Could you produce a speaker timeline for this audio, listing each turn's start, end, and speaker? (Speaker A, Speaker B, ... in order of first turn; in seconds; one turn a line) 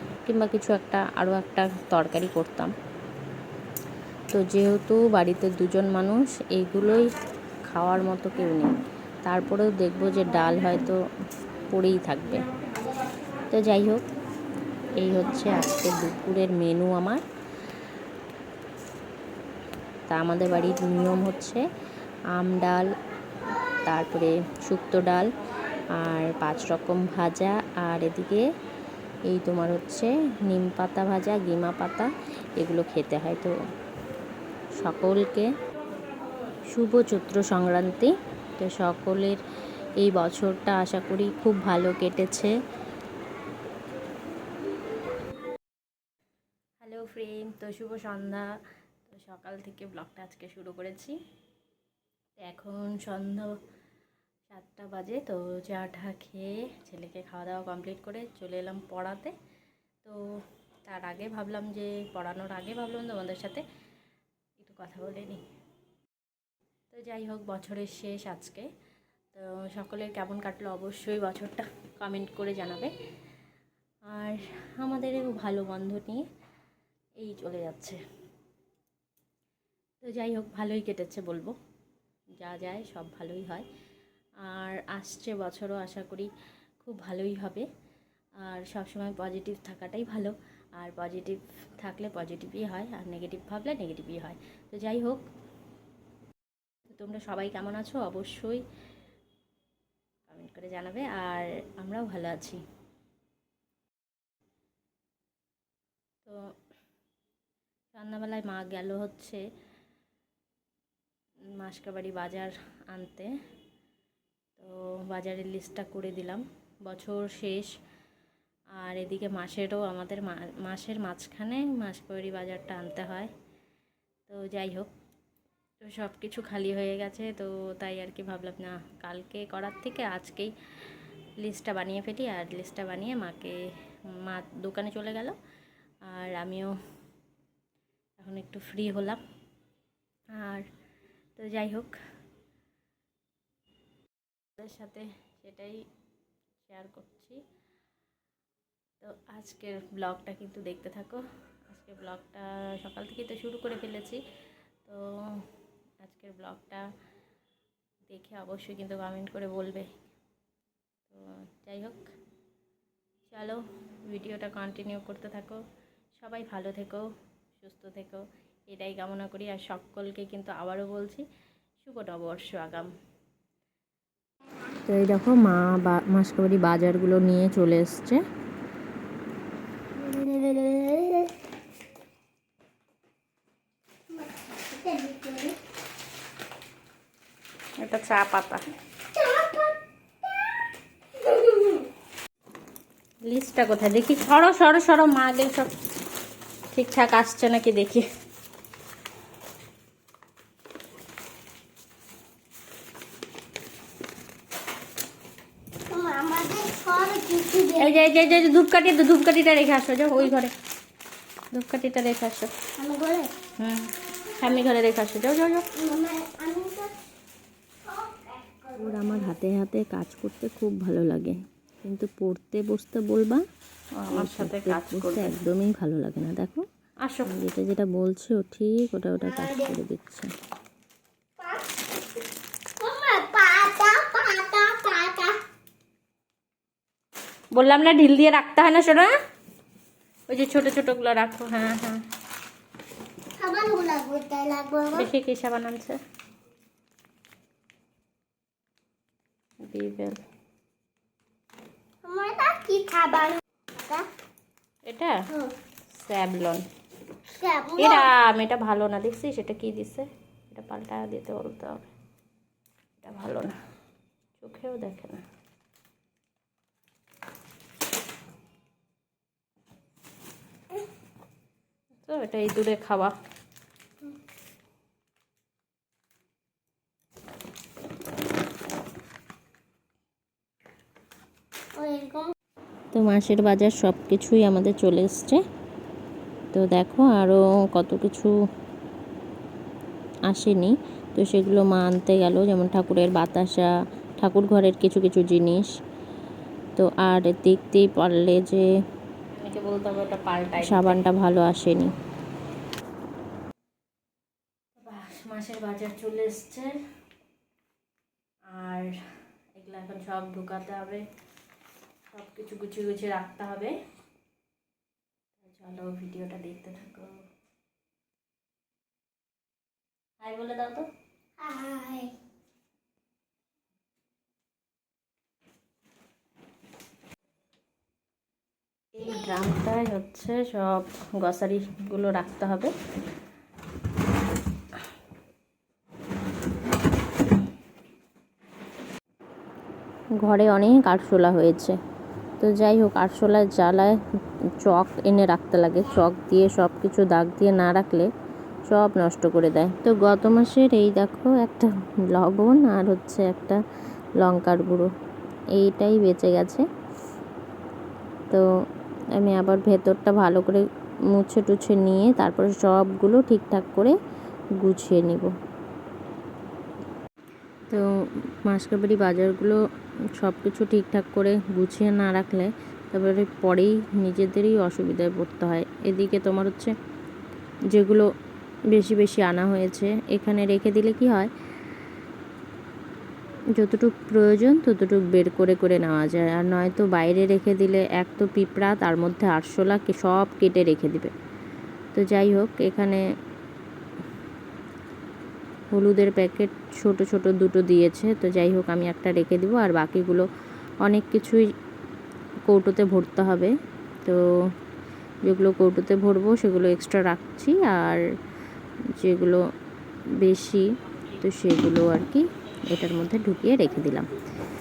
Speaker A: 0.3-2.7
Speaker A: 4.3-7.1
Speaker A: 7.7-8.7
Speaker A: 9.2-11.0
Speaker A: 11.7-12.4
Speaker A: 13.5-14.0
Speaker A: 15.0-17.2
Speaker A: 20.1-21.6
Speaker A: 22.3-22.9
Speaker A: 23.9-25.3
Speaker A: 25.9-28.4
Speaker A: 29.3-33.5
Speaker A: 34.8-35.5
Speaker A: 36.7-39.4
Speaker A: 40.0-42.5
Speaker A: 46.8-48.5
Speaker A: 49.1-51.2
Speaker A: 52.4-53.5
Speaker A: 54.5-59.3
Speaker A: 60.9-63.6
Speaker A: 64.6-65.4
Speaker A: 66.9-68.7
Speaker A: 69.3-72.9
Speaker A: 74.1-76.2
Speaker A: 77.2-78.0
Speaker A: 80.0-81.5
Speaker A: 82.4-83.7
Speaker A: 84.4-86.3
Speaker A: 86.8-87.7
Speaker A: 88.4-95.2
Speaker A: 96.9-98.6
Speaker A: 100.3-102.6
Speaker A: 107.9-109.4
Speaker A: 111.6-113.3
Speaker A: 114.6-117.7
Speaker A: 118.8-123.3
Speaker A: 124.3-124.9
Speaker A: 125.8-130.5
Speaker A: 131.4-133.6
Speaker A: 134.2-135.4
Speaker A: 136.1-136.7
Speaker A: 138.2-139.2
Speaker A: 140.4-140.7
Speaker A: 141.4-141.9
Speaker A: 144.6-145.8
Speaker A: 146.6-147.4
Speaker A: 149.0-154.2
Speaker A: 154.8-155.4
Speaker A: 156.0-156.8
Speaker A: 158.1-159.9
Speaker A: 161.1-162.0
Speaker A: 163.3-165.6
Speaker A: 166.2-167.1
Speaker A: 167.6-171.2
Speaker A: 171.8-172.9
Speaker A: 174.9-178.2
Speaker B: 180.0-181.3
Speaker B: 184.2-185.6
Speaker A: 187.8-188.6
Speaker B: 189.2-189.8
Speaker B: 191.3-191.7
Speaker A: 193.2-195.7
Speaker A: 196.7-198.1
Speaker B: 205.9-208.3
Speaker C: 207.8-208.4
Speaker A: 207.8-210.5
Speaker A: 211.5-212.5
Speaker B: 212.8-213.3
Speaker A: 213.6-215.6
Speaker B: 215.7-216.9
Speaker B: 217.9-219.2
Speaker A: 218.7-223.4
Speaker C: 224.0-225.3
Speaker A: 224.1-226.7
Speaker C: 227.0-227.3
Speaker A: 227.2-230.3
Speaker B: 229.2-229.7
Speaker B: 232.8-235.4
Speaker A: 237.6-239.1
Speaker C: 238.3-239.0
Speaker A: 240.3-242.0
Speaker B: 243.4-245.1
Speaker A: 245.0-246.0
Speaker A: 249.7-250.2
Speaker B: 252.0-254.1
Speaker A: 254.9-255.2
Speaker A: 255.9-256.6
Speaker B: 257.3-258.1
Speaker A: 257.8-261.9
Speaker A: 263.0-263.5
Speaker A: 264.4-265.2
Speaker A: 272.0-273.1
Speaker B: 281.8-282.3
Speaker A: 282.9-285.4
Speaker A: 286.5-288.3
Speaker A: 290.3-295.7
Speaker A: 296.8-298.7
Speaker C: 299.3-301.0
Speaker A: 300.6-301.9
Speaker A: 304.8-306.7
Speaker C: 305.2-306.7
Speaker A: 308.5-309.0
Speaker A: 309.6-311.0
Speaker A: 312.1-313.8
Speaker A: 315.4-317.1
Speaker A: 320.2-320.9
Speaker B: 321.4-322.1
Speaker A: 328.9-332.7
Speaker A: 340.2-341.8
Speaker A: 342.4-344.0
Speaker A: 344.6-348.1
Speaker A: 348.7-353.6
Speaker A: 354.2-354.9
Speaker A: 355.6-356.6
Speaker A: 359.2-364.0
Speaker A: 364.6-365.3
Speaker A: 368.4-369.6
Speaker A: 370.2-376.7
Speaker A: 377.7-378.1
Speaker A: 378.7-381.3
Speaker A: 383.6-391.1
Speaker A: 391.9-393.0
Speaker A: 395.7-400.3
Speaker A: 400.8-401.4
Speaker A: 402.5-403.5
Speaker A: 405.3-408.0
Speaker A: 409.0-409.4
Speaker A: 410.2-410.6
Speaker A: 411.2-414.1